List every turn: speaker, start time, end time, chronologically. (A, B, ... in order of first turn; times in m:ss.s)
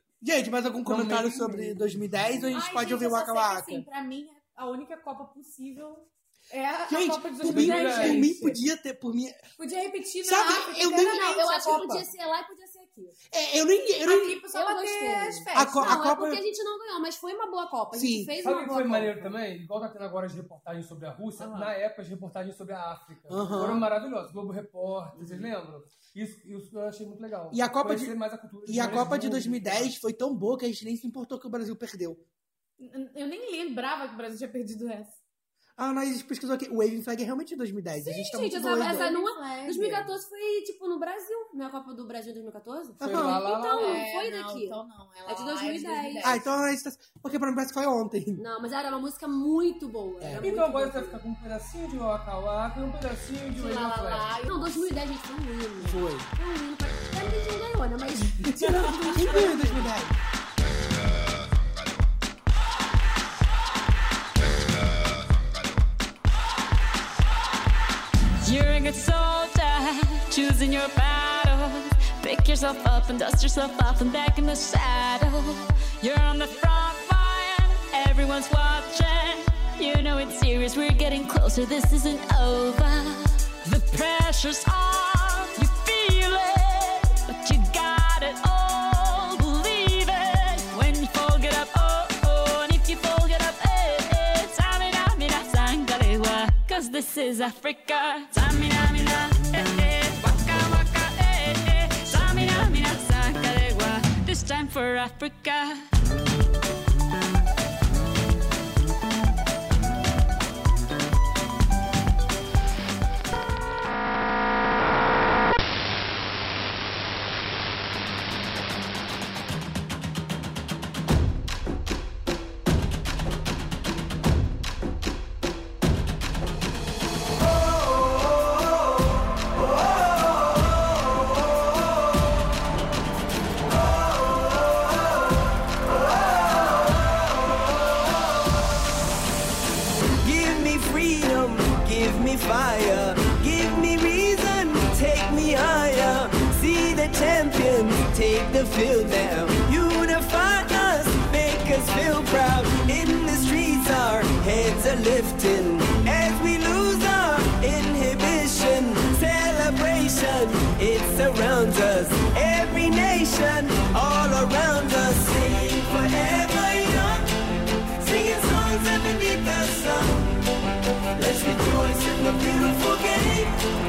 0:00.2-0:03.8 A
0:00.9-0:02.5 B
0:02.5-0:08.6 C
0:06.9-0:09.4 A
0:07.5-0:08.3 B
0:09.6-0:12.0 C
0:10.2-0:12.0 A
0:10.9-0:13.2 D
0:13.3-0:14.4 A
0:14.0-0:16.0 C
0:14.5-0:19.4 D
0:15.5-0:16.4 A
0:17.9-0:18.4 A
0:18.4-0:29.9 B
0:21.4-0:21.8 C
0:23.3-0:23.9 A
0:25.2-0:25.5 C
0:27.5-0:32.2 A
0:32.8-0:35.2 C
0:35.8-0:39.1 A
0:38.0-0:46.4 D
0:38.5-0:40.1 C
0:43.0-0:44.0 B
0:43.0-0:43.4 A
0:43.8-0:46.7 C
0:46.2-0:48.4 A
0:48.4-0:51.2 D
0:50.2-0:50.6 A
0:50.4-0:54.4 B
0:53.6-0:59.9 D
0:54.1-0:54.9 C
0:55.8-0:56.3 A
0:58.6-0:59.1 C
0:58.6-1:00.2 A
1:08.4-1:45.8 E
2:20.2-2:47.3 F
2:48.0-2:50.4 F
2:51.2-2:53.6 F